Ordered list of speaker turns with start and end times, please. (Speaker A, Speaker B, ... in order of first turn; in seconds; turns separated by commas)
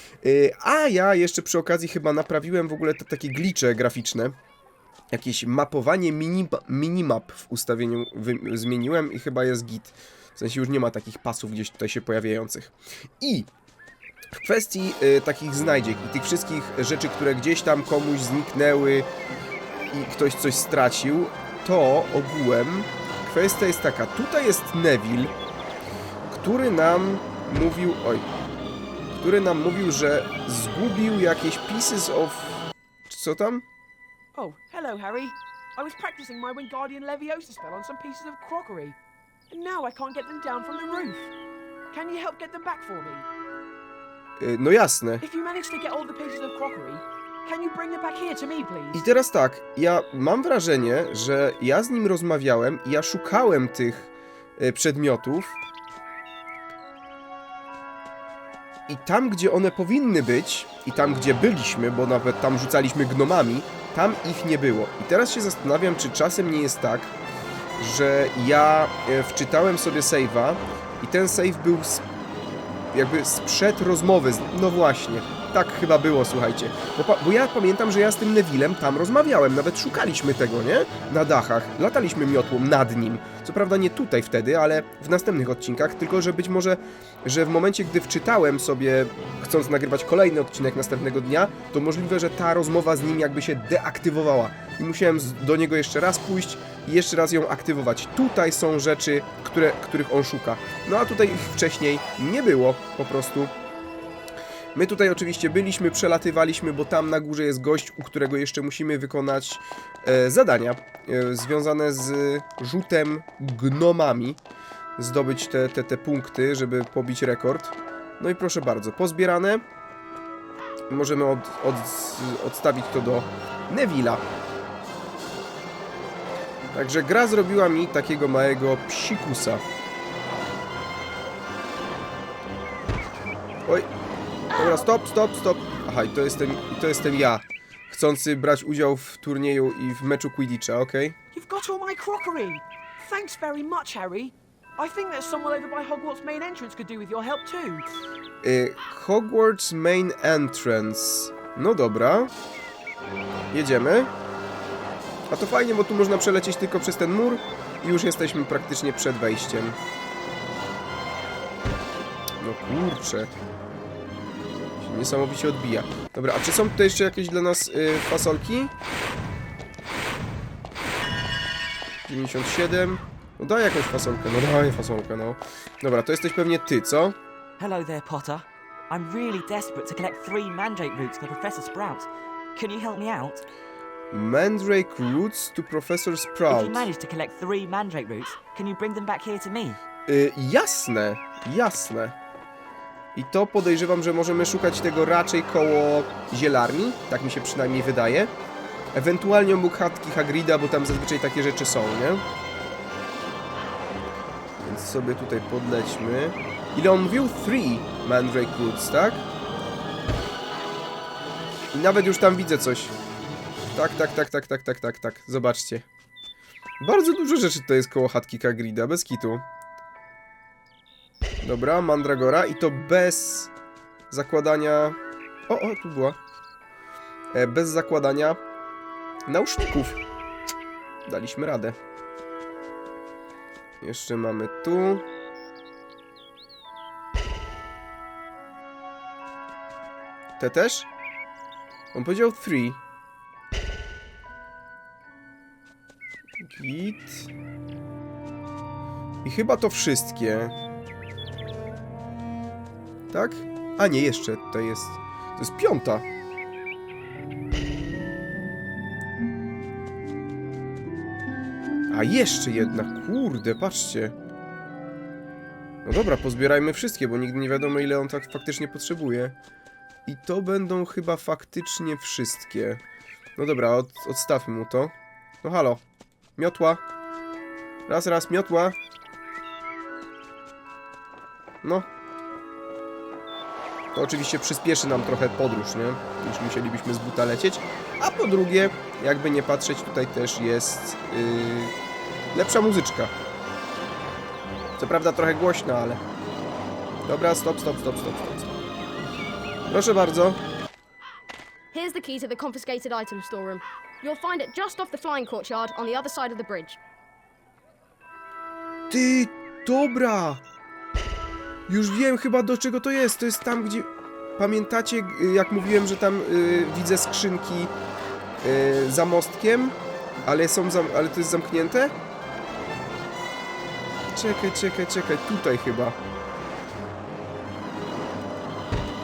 Speaker A: 0.2-4.3, Speaker A: 5.1-13.5, Speaker A: 14.3-19.1, Speaker A: 19.9-25.3, Speaker A: 26.3-28.3, Speaker A: 29.2-33.6, Speaker B: 34.3-38.9, Speaker B: 39.5-41.3, Speaker B: 41.9-43.3, Speaker A: 44.4-45.2, Speaker B: 45.2-49.0, Speaker A: 48.9-55.6, Speaker A: 58.9-67.1, Speaker A: 67.8-72.0, Speaker A: 72.9-103.5, Speaker A: 104.7-114.4, Speaker A: 115.0-119.6, Speaker A: 120.9-124.2, Speaker A: 126.7-129.6, Speaker A: 134.5-141.2, Speaker B: 141.3-147.8, Speaker A: 148.4-152.3, Speaker A: 153.5-154.1, Speaker A: 155.3-159.8, Speaker A: 162.4-163.3, Speaker A: 164.8-168.7, Speaker A: 172.1-177.2, Speaker C: 177.6-183.4, Speaker A: 184.1-186.9, Speaker C: 186.5-189.8, Speaker A: 190.1-192.1, Speaker A: 193.1-198.3, Speaker A: 198.9-202.2, Speaker A: 204.6-209.2, Speaker A: 211.7-212.9, Speaker A: 213.7-215.8, Speaker A: 216.8-219.4, Speaker A: 221.4-223.5, Speaker A: 224.1-225.0, Speaker A: 225.5-226.2, Speaker A: 227.3-228.4, Speaker A: 229.3-230.0, Speaker A: 231.0-231.8, Speaker A: 233.8-235.0, Speaker A: 240.4-240.9, Speaker A: 241.9-242.8, Speaker A: 246.4-247.3, Speaker A: 249.2-250.5, Speaker A: 253.1-256.0, Speaker A: 261.9-264.1, Speaker A: 265.8-269.4, Speaker A: 270.1-272.8, Speaker A: 273.4-275.8, Speaker A: 276.4-276.8, Speaker A: 277.9-278.8, Speaker A: 283.9-291.7, Speaker A: 292.3-293.1, Speaker A: 294.8-296.0, Speaker A: 297.1-298.6, Speaker A: 299.7-300.4, Speaker D: 301.7-306.8, Speaker A: 308.9-310.4, Speaker A: 311.7-317.7, Speaker A: 318.4-321.9, Speaker A: 324.1-325.9